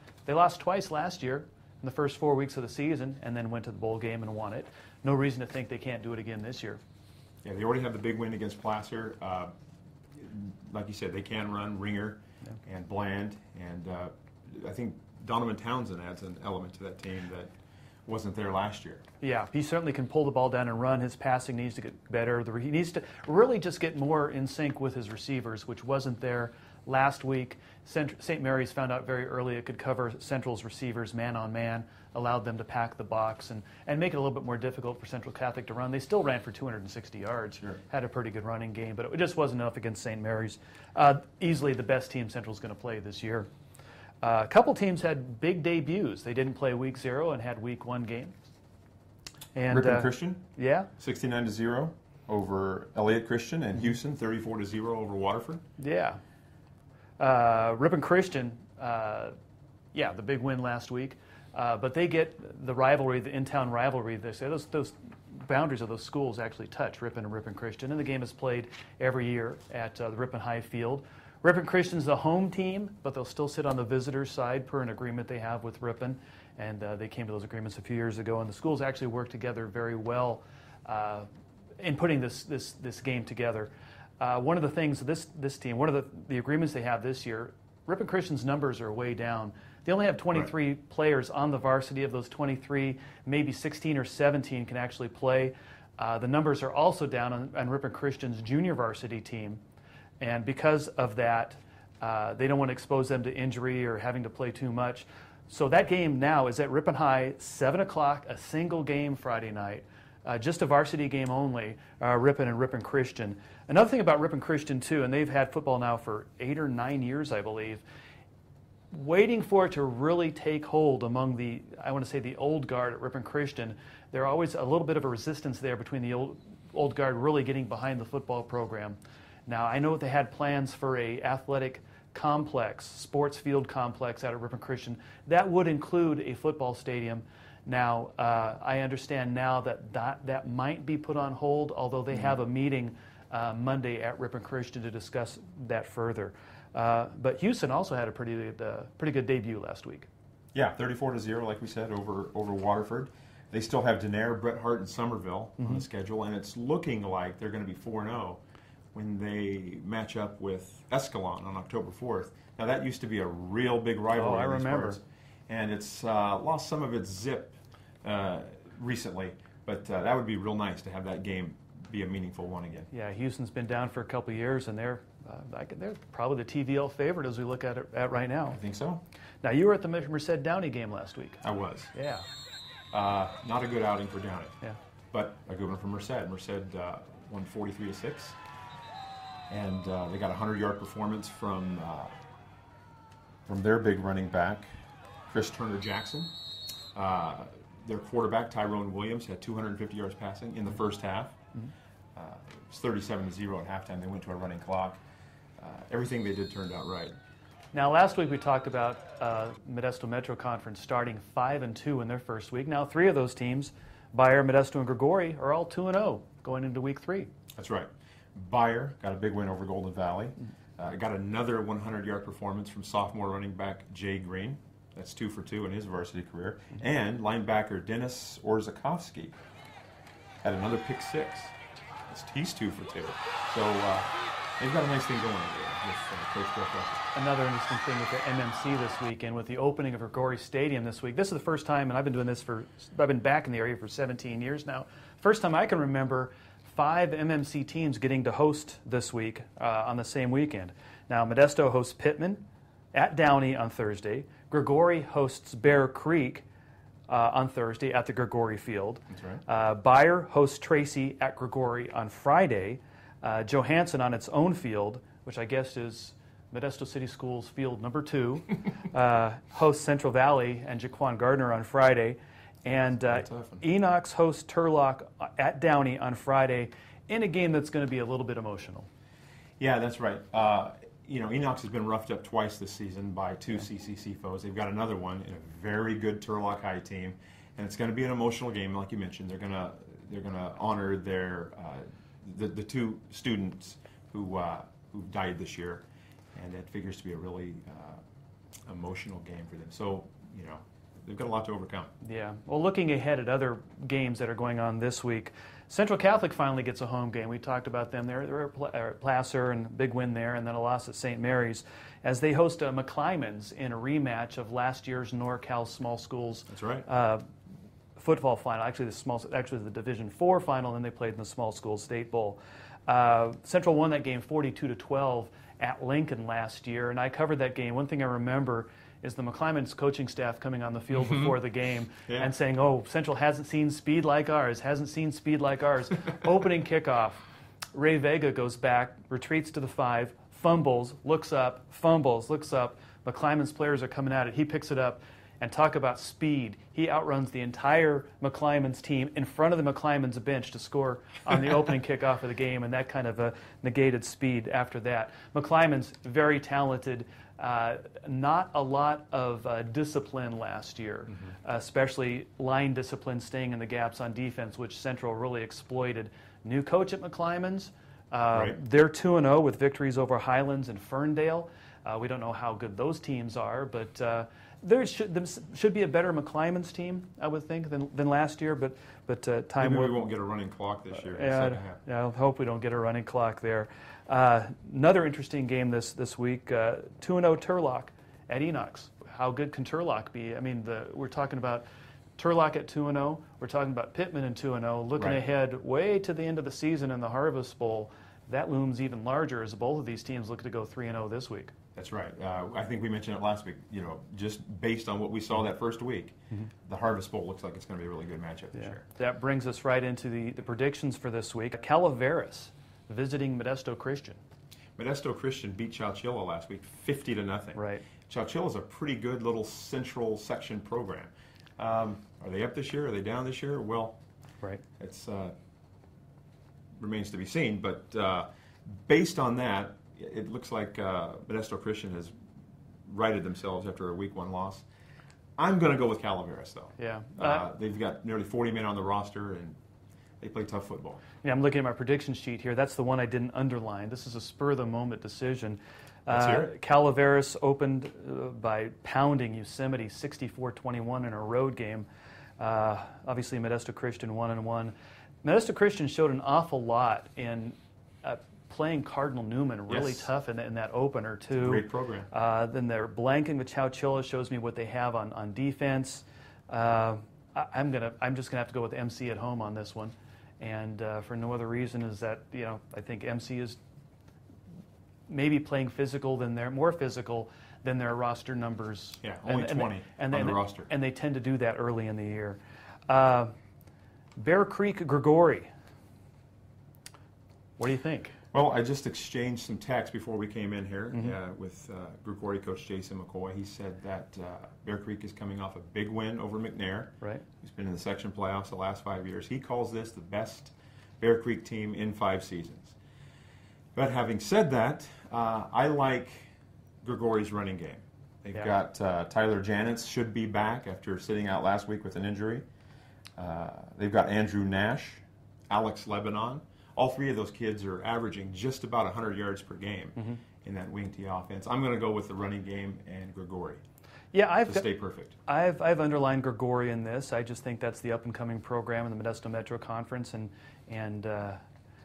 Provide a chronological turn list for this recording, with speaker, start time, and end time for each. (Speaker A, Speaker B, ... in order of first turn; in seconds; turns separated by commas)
Speaker A: 0.2-6.8, Speaker B: 7.4-9.5, Speaker B: 10.1-17.5, Speaker B: 18.1-19.0, Speaker A: 19.2-43.5, Speaker A: 44.2-48.4, Speaker A: 49.5-50.9, Speaker B: 49.7-50.4, Speaker B: 51.0-55.6, Speaker A: 55.8-56.2, Speaker A: 57.2-59.3, Speaker A: 59.9-81.3, Speaker A: 81.8-99.6, Speaker A: 100.2-117.8, Speaker A: 118.9-150.1, Speaker B: 150.5-158.4, Speaker A: 155.6-155.8, Speaker B: 158.9-172.9, Speaker A: 164.1-165.0, Speaker A: 172.9-178.6, Speaker B: 178.5-179.0, Speaker A: 179.4-182.2, Speaker B: 181.4-181.9, Speaker B: 182.9-184.6, Speaker B: 185.1-188.4, Speaker B: 189.5-192.1, Speaker B: 193.5-194.7, Speaker B: 195.3-196.3, Speaker B: 196.9-201.4, Speaker B: 202.1-205.0, Speaker B: 205.6-207.1, Speaker A: 207.7-217.3, Speaker B: 217.6-229.4, Speaker B: 230.4-231.6, Speaker B: 232.1-237.1, Speaker A: 237.1-256.4, Speaker A: 257.1-278.9, Speaker B: 259.1-259.4, Speaker B: 273.1-273.6, Speaker B: 279.6-295.8, Speaker B: 296.4-298.0, Speaker B: 298.7-301.9, Speaker A: 302.0-317.2, Speaker B: 316.5-316.9, Speaker A: 318.0-380.0, Speaker B: 330.9-331.3, Speaker B: 368.3-368.6, Speaker B: 379.6-381.8, Speaker A: 380.9-391.6, Speaker A: 392.2-401.5, Speaker B: 401.8-408.8, Speaker A: 408.6-414.2, Speaker B: 414.8-424.0, Speaker A: 417.6-417.8, Speaker B: 424.8-425.4, Speaker B: 426.8-432.1, Speaker B: 432.9-434.7, Speaker B: 435.4-439.6, Speaker A: 436.8-437.5, Speaker B: 440.2-441.0, Speaker A: 441.2-451.9, Speaker B: 446.1-446.5, Speaker A: 452.4-473.6, Speaker B: 459.7-460.1, Speaker B: 461.3-462.1, Speaker A: 475.1-483.3, Speaker B: 479.0-480.7, Speaker A: 484.2-485.5, Speaker A: 487.6-488.1, Speaker B: 488.3-502.8, Speaker A: 490.9-491.2, Speaker A: 497.0-497.2, Speaker B: 503.8-506.3, Speaker B: 506.8-512.5, Speaker B: 513.2-523.6, Speaker A: 520.0-520.2, Speaker A: 524.1-524.7, Speaker B: 524.5-525.1, Speaker A: 525.2-531.4